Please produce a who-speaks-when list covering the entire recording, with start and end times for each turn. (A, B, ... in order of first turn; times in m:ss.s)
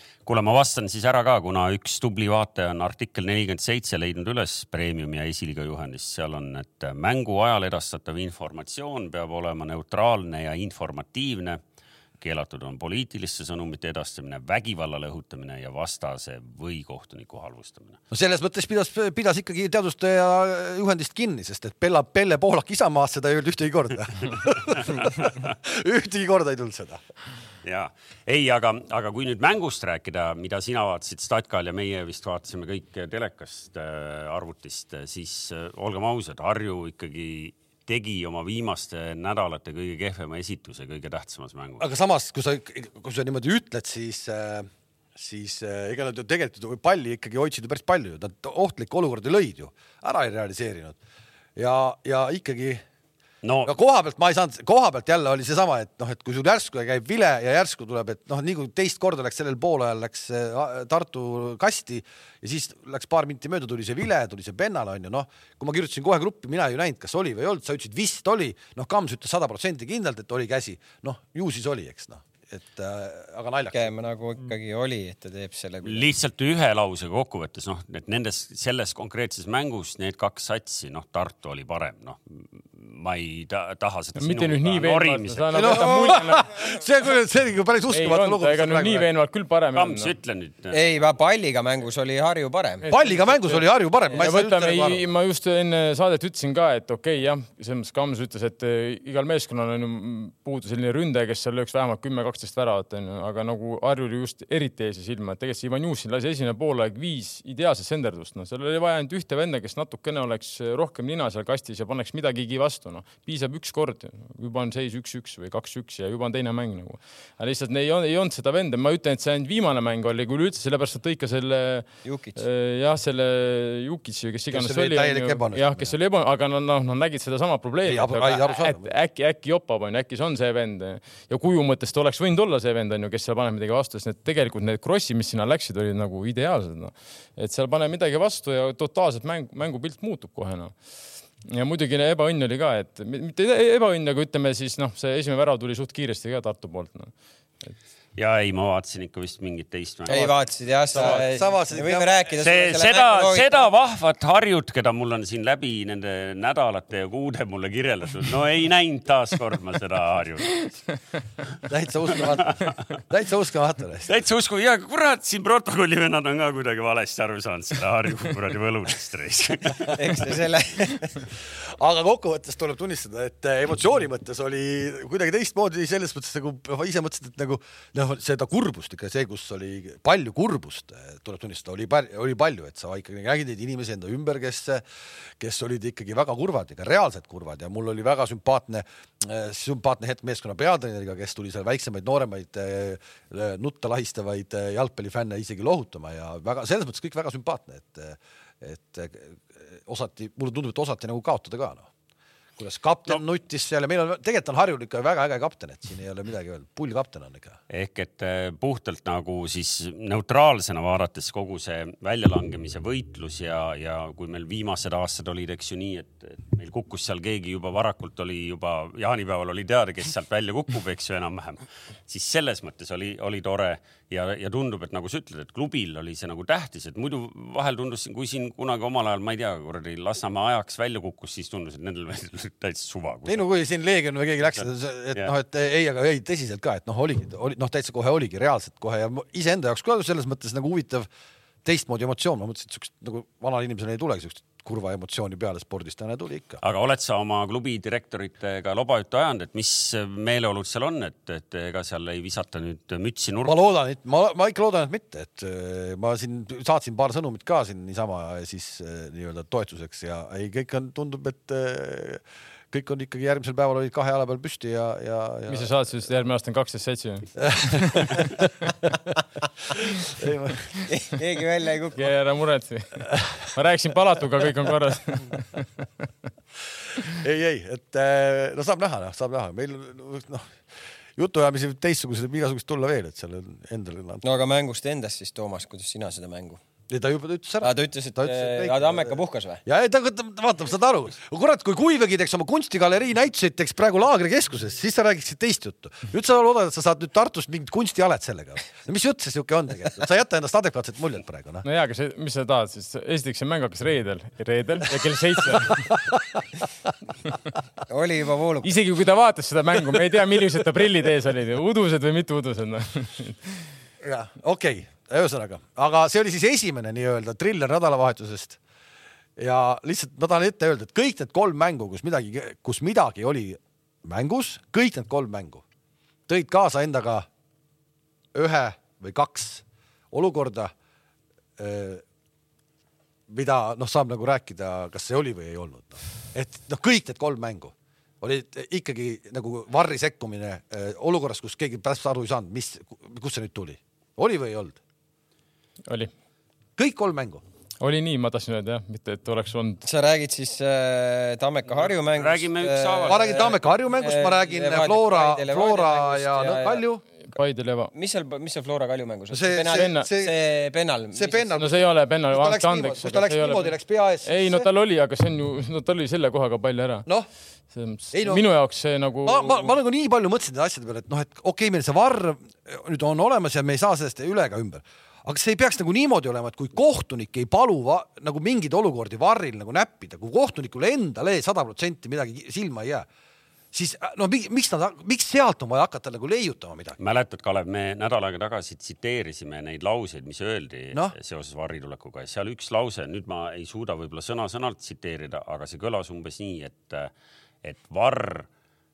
0:00.2-0:11.6 A
0:12.2-0:18.0 A
0:18.1-0:27.0 B
0:24.8-0:25.5 A
0:27.6-0:41.8 A
0:41.8-0:51.0 B
0:51.6-0:52.8 B
0:53.4-0:53.7 A
0:53.6-1:13.9 B
1:13.7-1:16.1 C
1:15.8-1:25.9 A
1:24.2-1:26.5 D
1:25.5-1:29.1 B
1:27.9-1:30.1 D
1:29.7-1:30.9 A
1:30.7-1:32.8 C
1:32.8-2:20.8 D
1:32.9-1:35.0 B
2:02.0-2:02.4 C
2:04.5-2:05.9 B
2:07.8-2:08.9 B
2:21.4-2:27.1 D
2:28.2-2:30.4 A
2:30.1-2:33.7 C
2:30.9-2:32.1 B
2:31.0-2:31.2 D
2:32.3-2:40.7 A
2:41.6-2:44.1 B
2:42.1-2:43.0 A
2:44.0-2:50.3 A
2:49.9-2:51.2 C
2:51.4-3:04.8 B
3:05.4-3:21.9 B
3:22.6-3:27.6 B
3:27.7-3:53.4 A
3:53.2-4:01.1 B
4:01.6-4:06.6 B
4:06.6-4:13.6 A
4:13.4-4:25.7 B
4:25.5-4:28.7 D
4:27.4-4:28.3 B
4:29.7-4:30.7 B
4:30.9-4:32.0 C
4:32.0-4:35.9 D
4:37.0-4:40.6 B
4:41.2-4:44.2 B
4:44.2-4:46.6 C
4:46.9-5:01.6 B
4:47.6-4:49.6 C
5:01.6-5:06.1 D
5:05.5-5:06.4 B
5:07.9-5:08.8 C
5:08.6-5:13.7 D
5:14.0-5:18.6 B
5:19.4-5:25.6 B
5:26.3-5:27.2 B
5:28.3-5:30.7 B
5:31.6-5:32.0 B
5:33.3-5:44.8 B
5:46.8-5:47.4 B
5:47.8-5:49.8 D
5:49.8-5:56.8 C
5:51.8-5:53.6 A
5:53.1-5:57.0 B
5:57.3-5:57.9 D
5:57.9-6:01.6 C
5:59.3-6:00.3 B
5:59.7-6:00.1 D
6:01.1-6:04.7 B
6:01.6-6:03.7 D
6:04.2-6:07.0 D
6:07.7-6:09.7 D
6:08.1-6:08.5 B
6:09.2-6:23.1 B
6:23.7-6:27.0 B
6:27.0-6:37.1 A
6:37.6-6:38.5 A